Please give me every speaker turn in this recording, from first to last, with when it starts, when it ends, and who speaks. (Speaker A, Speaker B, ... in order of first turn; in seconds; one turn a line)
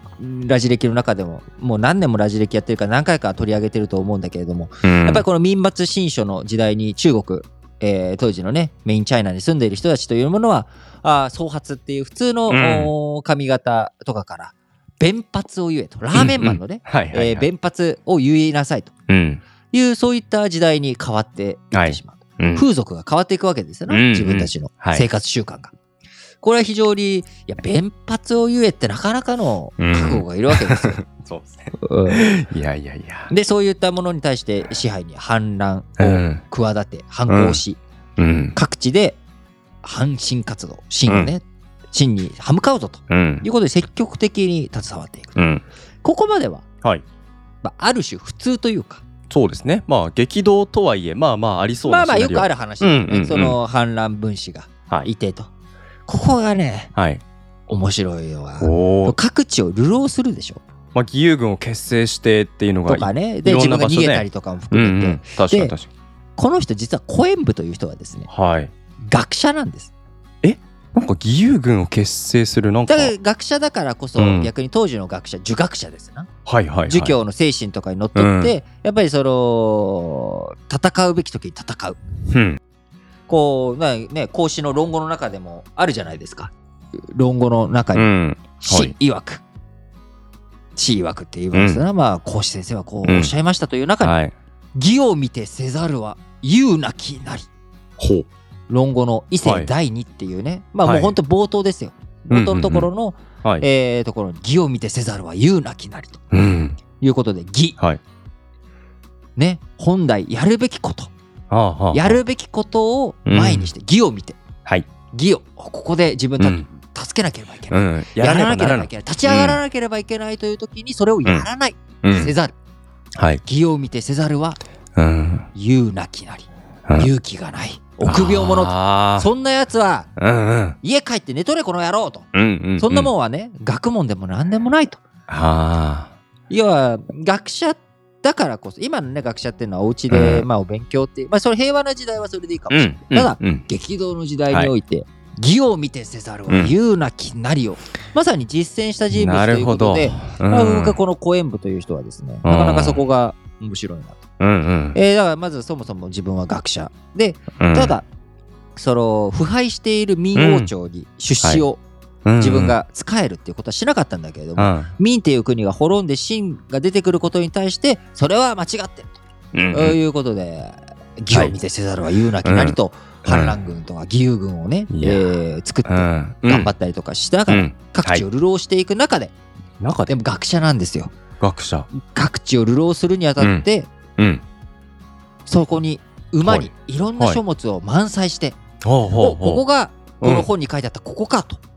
Speaker A: 0.2-18.9
Speaker B: 4.8-5.2
Speaker B: 12.5-12.9
Speaker B: 16.1-17.5
Speaker B: 19.1-19.4
Speaker A: 19.7-25.7
Speaker B: 21.7-22.6
Speaker B: 23.9-25.0
Speaker A: 26.4-31.0
Speaker B: 29.8-33.3
Speaker A: 31.7-32.2
Speaker A: 33.3-37.8
Speaker B: 36.0-36.4
Speaker B: 37.3-37.6
Speaker B: 38.2-38.5
Speaker A: 38.5-39.2
Speaker A: 39.8-45.4
Speaker B: 41.1-41.3
Speaker B: 43.1-43.4
Speaker B: 45.4-45.6
Speaker A: 46.0-46.6
Speaker A: 47.6-49.0
Speaker B: 49.3-53.6
Speaker A: 51.8-55.5
Speaker A: 56.1-56.9
Speaker B: 57.0-57.2
Speaker A: 57.7-60.6
Speaker B: 58.6-59.1
Speaker B: 60.9-65.9
Speaker A: 62.9-65.7
Speaker A: 66.4-68.3
Speaker B: 68.3-68.7
Speaker A: 69.1-69.9
Speaker B: 70.4-73.1
Speaker A: 72.9-76.3
Speaker B: 74.2-74.5
Speaker B: 76.5-77.2
Speaker A: 76.9-82.0
Speaker B: 78.1-78.5
Speaker B: 82.3-82.6
Speaker A: 83.3-86.5
Speaker A: 87.1-88.1
Speaker B: 87.9-88.9
Speaker A: 88.6-89.4
Speaker A: 90.8-94.2
Speaker B: 91.5-91.8
Speaker B: 93.0-93.3
Speaker B: 94.0-94.3
Speaker A: 94.8-97.5
Speaker B: 98.0-98.3
Speaker A: 98.7-106.2
Speaker B: 99.4-99.7
Speaker B: 100.8-101.2
Speaker B: 102.3-102.9
Speaker B: 106.3-106.8
Speaker A: 107.0-107.8
Speaker A: 109.4-111.1
Speaker B: 111.5-112.2
Speaker A: 111.9-114.4
Speaker B: 113.2-113.7
Speaker A: 115.1-122.5
Speaker B: 116.4-116.7
Speaker B: 117.7-119.6
Speaker B: 122.0-122.3
Speaker B: 123.2-123.4
Speaker A: 123.4-124.6
Speaker B: 125.0-125.5
Speaker A: 125.5-130.1
Speaker B: 128.0-129.3
Speaker B: 130.2-130.8
Speaker A: 130.8-135.0
Speaker B: 132.3-133.1
Speaker B: 135.3-136.1
Speaker A: 136.5-154.2
Speaker B: 140.1-140.5
Speaker B: 142.7-143.6
Speaker B: 149.1-150.9
Speaker B: 152.4-153.0
Speaker B: 154.4-155.0
Speaker A: 154.9-158.0
Speaker B: 157.6-157.9
Speaker A: 158.8-161.8
Speaker B: 160.3-160.7
Speaker B: 162.2-162.7
Speaker A: 162.4-169.2
Speaker B: 164.6-164.9
Speaker B: 169.5-170.0
Speaker A: 169.7-179.3
Speaker B: 172.4-173.6
Speaker B: 174.9-175.3
Speaker B: 175.9-176.7
Speaker B: 177.5-178.2
Speaker B: 179.8-180.1
Speaker A: 180.1-181.1
Speaker B: 181.4-181.9
Speaker A: 181.9-183.9
Speaker B: 183.4-183.6
Speaker B: 184.2-184.4
Speaker A: 185.4-188.6
Speaker B: 186.4-187.4
Speaker B: 188.8-189.6
Speaker A: 189.2-191.6
Speaker B: 190.2-190.5